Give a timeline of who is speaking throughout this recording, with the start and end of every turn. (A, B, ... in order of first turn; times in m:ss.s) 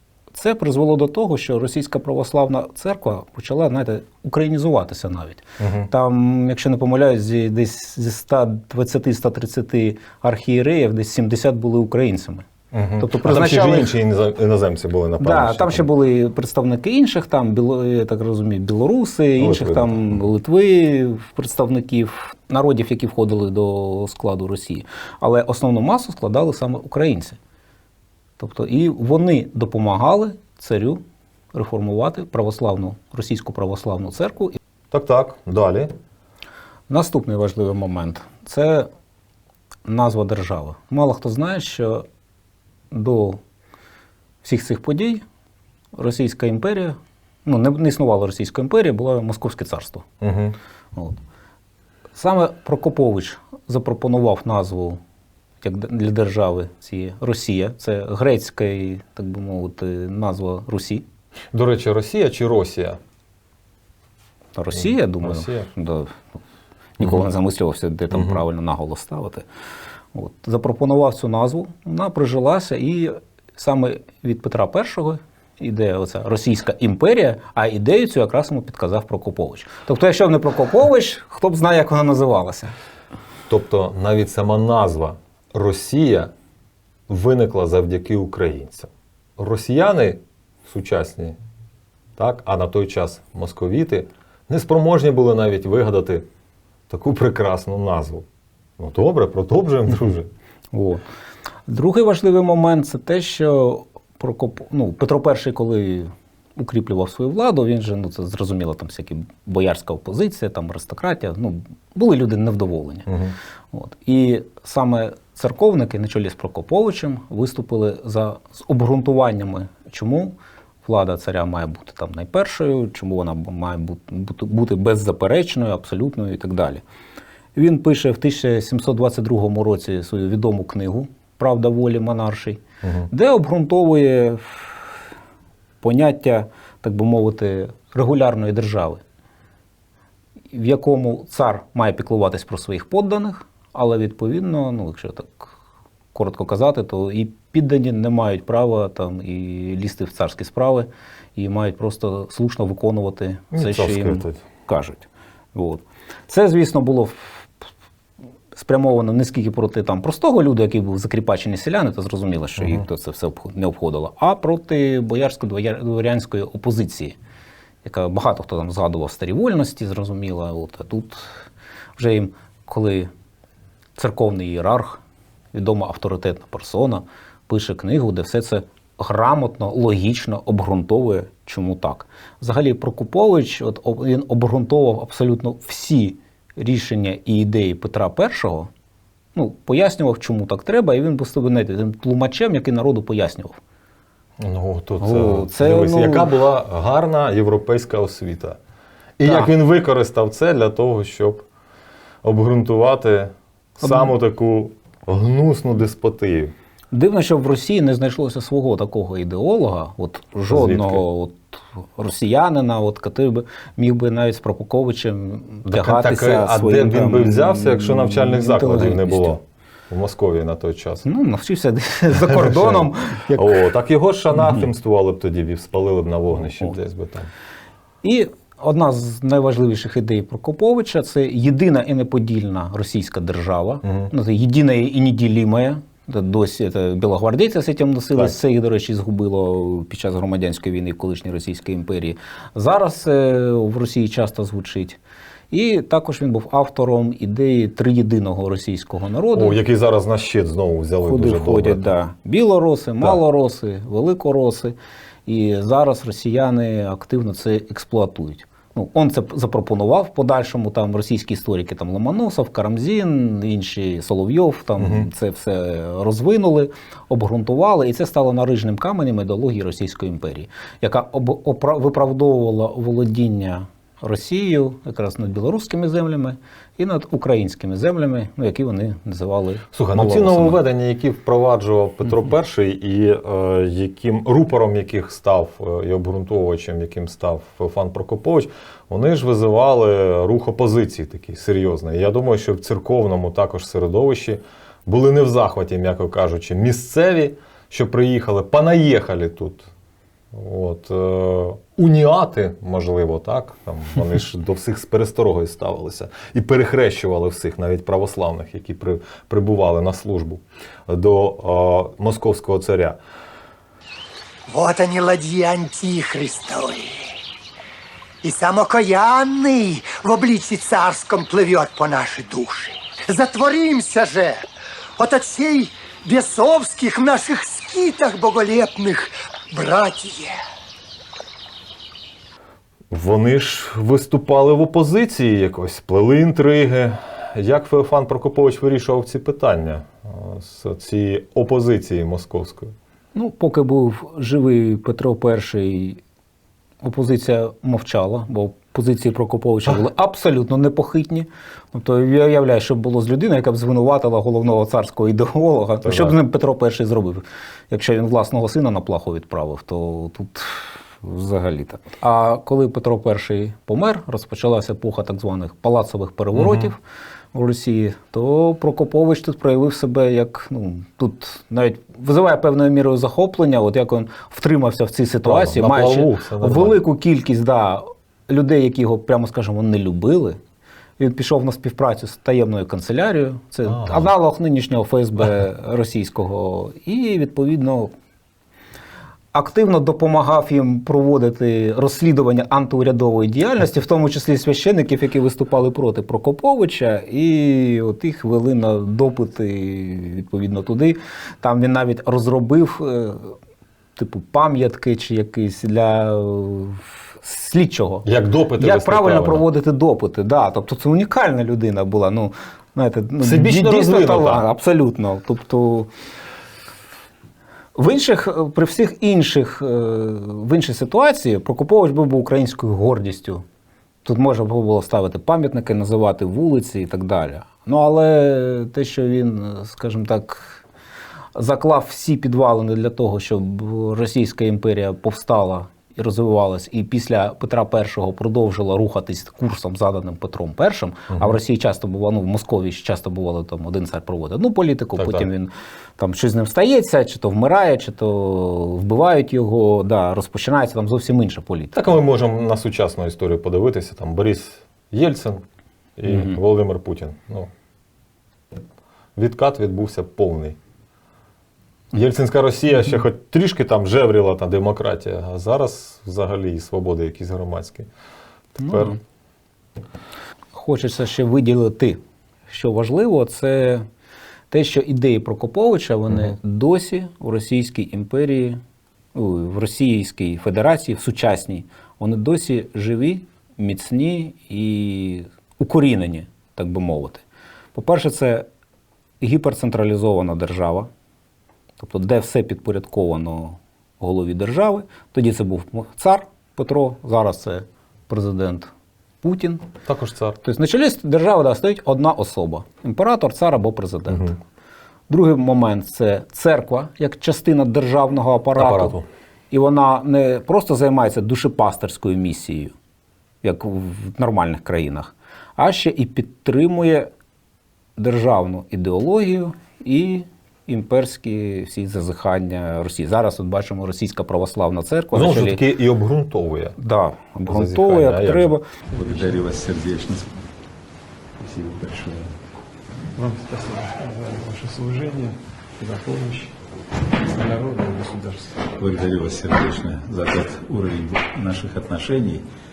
0:00.3-0:12.5 A
0:05.6-0:05.9 B
0:12.7-0:15.9 B
0:13.0-0:14.0 A
0:15.2-0:27.4 A
0:19.4-0:20.2 B
0:28.4-0:31.0 A
0:31.5-0:34.6 A
0:34.9-0:35.9 B
0:36.9-0:38.9 A
0:39.8-0:42.1 A
0:42.9-0:43.4 A
0:44.4-0:45.2 A
0:46.0-0:50.1 A
0:50.2-0:50.6 B
0:52.2-0:55.0 A
0:55.6-1:01.1 A
1:01.5-1:03.0 B
1:04.6-1:06.2 A
1:04.8-1:05.7 B
1:07.0-1:09.5 A
1:08.1-1:08.4 B
1:10.1-1:22.7 A
1:23.5-1:26.3 B
1:27.1-1:31.4 B
1:32.2-1:36.3 B
1:36.9-1:38.3 B
1:38.8-1:40.3 B
1:40.7-1:41.0 A
1:41.7-1:53.1 A
1:53.1-1:53.4 B
1:53.7-2:06.8 A
2:07.6-2:14.8 A
2:12.8-2:13.1 B
2:15.8-2:19.0 A
2:20.5-2:25.5 A
2:26.1-2:37.6 A
2:33.5-2:34.4 B
2:38.5-2:47.2 A
2:42.6-2:42.8 B
2:47.8-2:51.4 A
2:52.0-2:53.1 A
2:54.0-2:55.0 A
2:55.5-3:08.7 A
3:09.4-3:13.6 A
3:14.4-3:18.6 B
3:15.0-3:16.4 A
3:19.2-3:21.4 B
3:19.2-3:19.5 A
3:22.2-3:26.5 B
3:23.8-3:24.1 A
3:26.9-3:39.4 A
3:30.5-3:31.0 B
3:35.7-3:41.1 B
3:41.0-3:43.7 A
3:42.2-3:47.3 B
3:44.3-3:44.7 A
3:48.0-4:05.0 A
3:53.8-3:54.1 B
4:05.5-4:09.6 A
4:09.4-4:11.9 B
4:11.0-4:40.6 A
4:24.8-4:25.1 B
4:39.7-4:59.7 B
5:00.3-5:13.0 B
5:14.5-5:17.2 C
5:18.2-5:24.4 C
5:25.0-5:30.4 C
5:32.9-5:42.7 B
5:43.1-5:46.0 A
5:46.8-6:06.8 A
5:55.8-5:56.2 B
6:06.4-6:06.7 B
6:07.3-6:20.4 A
6:15.2-6:16.8 B
6:21.0-6:27.9 A
6:23.6-6:24.1 B
6:29.3-6:43.4 A
6:44.0-6:48.1 A
6:48.0-6:49.4 B
6:48.6-6:55.9 A
6:53.2-6:54.4 B
6:57.8-7:03.4 A
7:04.0-7:10.6 A
7:11.4-7:31.9 A
7:21.1-7:21.4 B
7:25.0-7:25.3 B
7:31.8-7:35.4 B
7:36.0-7:37.5 B
7:36.1-7:36.4 A
7:39.2-7:40.6 B
7:41.9-7:47.9 B
7:48.6-7:49.0 B
7:48.6-7:49.0 A
7:50.5-7:53.9 A
7:54.5-7:58.6 A
7:59.1-8:08.5 A
8:09.2-8:10.9 A
8:11.8-8:18.7 A
8:19.2-8:19.7 A
8:19.8-8:20.4 B
8:20.4-8:24.4 A
8:24.1-8:24.4 B
8:25.1-8:29.0 A
8:28.6-8:29.0 B
8:29.5-8:32.7 A
8:33.4-8:37.1 A
8:38.0-8:45.6 A
8:45.1-8:46.8 B
8:46.8-8:48.7 A
8:47.5-8:48.5 B
8:48.9-8:49.3 D
8:48.9-8:50.5 E
8:51.4-8:52.4 E
8:53.2-8:56.6 D
8:57.2-8:58.7 D
8:58.8-9:02.5 E